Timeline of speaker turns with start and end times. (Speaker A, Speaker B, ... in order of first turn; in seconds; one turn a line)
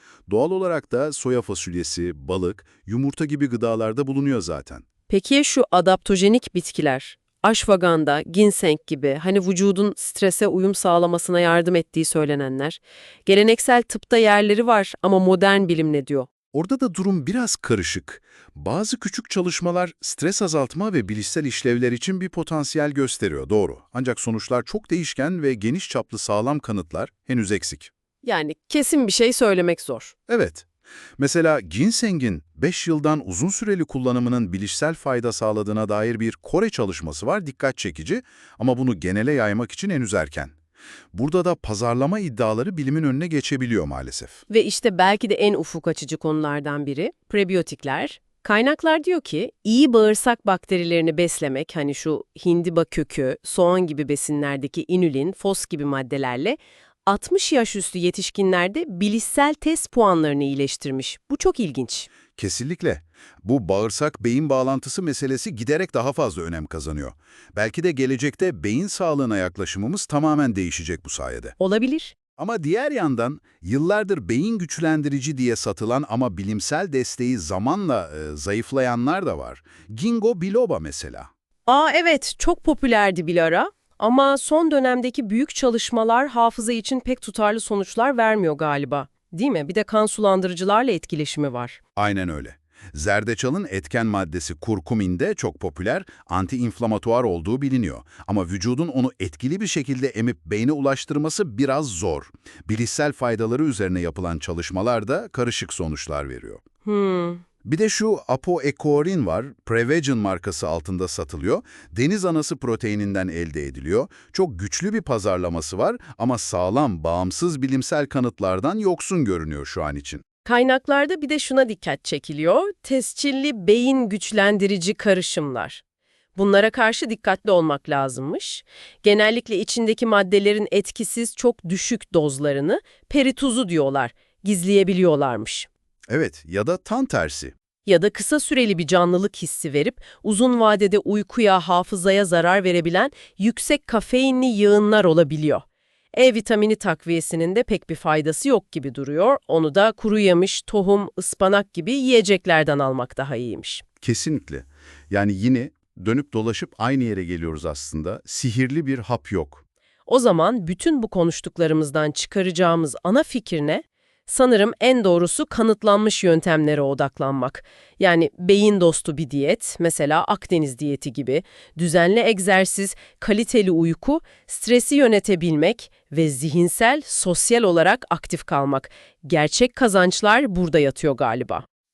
Speaker A: 0.3-4.8
Speaker B: 5.1-16.3
Speaker A: 16.5-27.9
Speaker B: 28.2-30.1
Speaker A: 30.3-30.6
Speaker A: 31.2-40.5
Speaker A: 41.1-44.4
Speaker B: 44.5-62.1
Speaker A: 62.4-71.5
Speaker B: 71.6-72.1
Speaker A: 72.4-81.3
Speaker B: 81.7-91.8
Speaker A: 92.0-106.6
Speaker B: 106.8-107.4
Speaker A: 107.6-120.2
Speaker B: 120.4-125.8
Speaker B: 126.3-135.7
Speaker A: 136.1-137.5
Speaker B: 137.8-153.8
Speaker A: 154.0-159.6
Speaker B: 160.1-181.6